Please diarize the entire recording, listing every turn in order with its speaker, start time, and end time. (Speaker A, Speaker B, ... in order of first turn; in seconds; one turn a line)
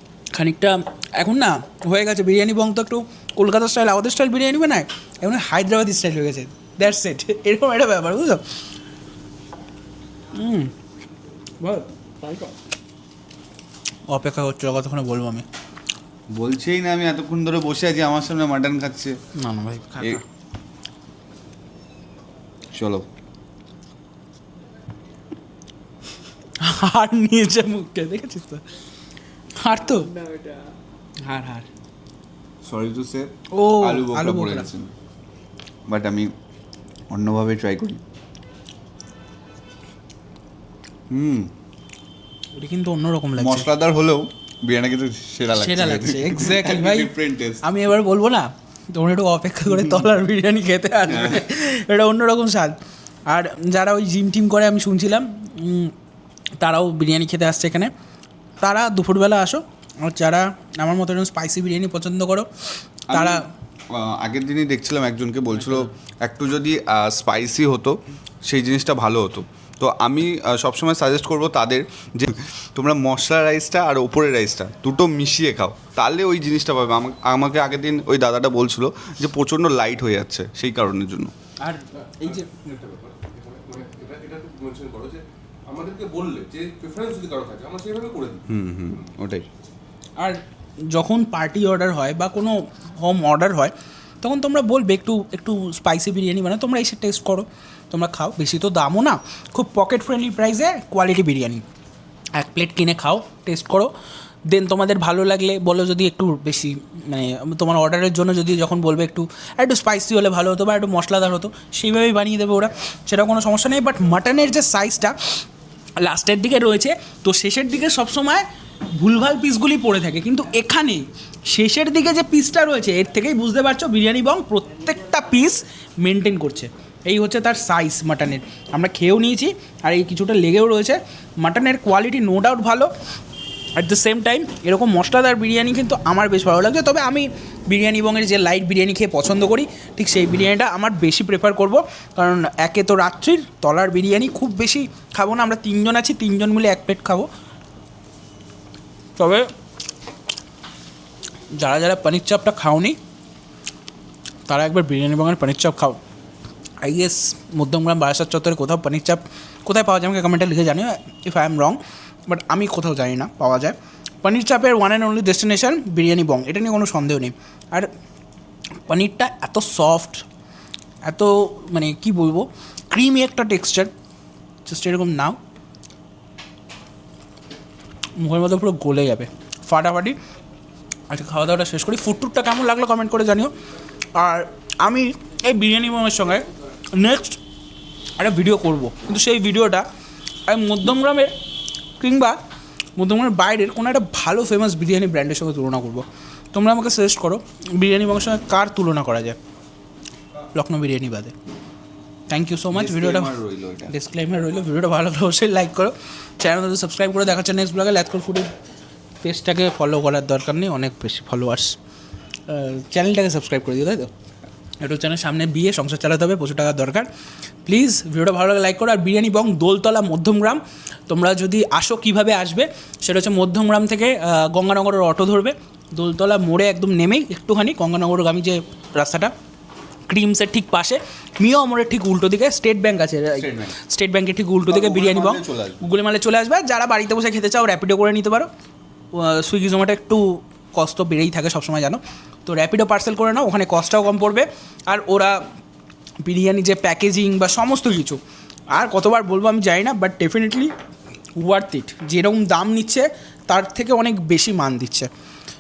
Speaker A: 0.3-8.4
Speaker A: 10.3-10.7
Speaker A: 11.6-12.5
Speaker A: 14.1-15.4
Speaker B: 16.3-19.2
Speaker A: 19.4-20.2
Speaker B: 22.7-23.1
Speaker A: 26.6-28.6
Speaker A: 29.6-30.1
Speaker A: 31.2-31.7
Speaker B: 32.6-34.9
Speaker A: 33.5-34.7
Speaker B: 35.9-36.3
Speaker B: 37.1-38.0
Speaker B: 41.1-41.5
Speaker A: 42.5-43.7
Speaker B: 43.4-47.6
Speaker A: 45.5-52.8
Speaker B: 49.7-50.1
Speaker B: 51.1-51.4
Speaker A: 53.3-55.9
Speaker A: 56.6-57.9
Speaker A: 58.6-62.5
Speaker B: 63.1-81.3
Speaker A: 63.1-63.4
Speaker A: 81.6-82.5
Speaker C: 82.2-88.4
Speaker B: 88.5-89.5
Speaker A: 90.2-101.6
Speaker A: 102.3-103.9
Speaker A: 104.5-115.2
Speaker A: 116.0-118.4
Speaker A: 119.0-132.9
Speaker A: 133.8-147.3
Speaker A: 149.2-149.5
Speaker A: 151.5-153.0
Speaker A: 154.5-156.0
Speaker A: 156.8-167.9
Speaker A: 168.8-170.2
Speaker A: 171.0-173.9
Speaker A: 174.6-175.4
Speaker A: 178.2-180.2
Speaker A: 181.1-183.5
Speaker A: 184.2-187.4
Speaker A: 188.2-189.8
Speaker A: 190.5-191.3
Speaker A: 192.0-192.4
Speaker A: 193.0-199.4
Speaker A: 200.5-201.3
Speaker A: 202.3-203.3
Speaker B: 202.7-203.9
Speaker A: 203.9-208.5
Speaker A: 209.2-211.8
Speaker A: 212.5-214.1
Speaker A: 214.8-217.1
Speaker A: 217.7-229.3
Speaker A: 230.1-238.5
Speaker B: 233.3-233.8
Speaker B: 234.7-235.8
Speaker A: 239.1-245.4
Speaker A: 246.2-248.2
Speaker A: 248.7-250.7
Speaker A: 251.4-255.1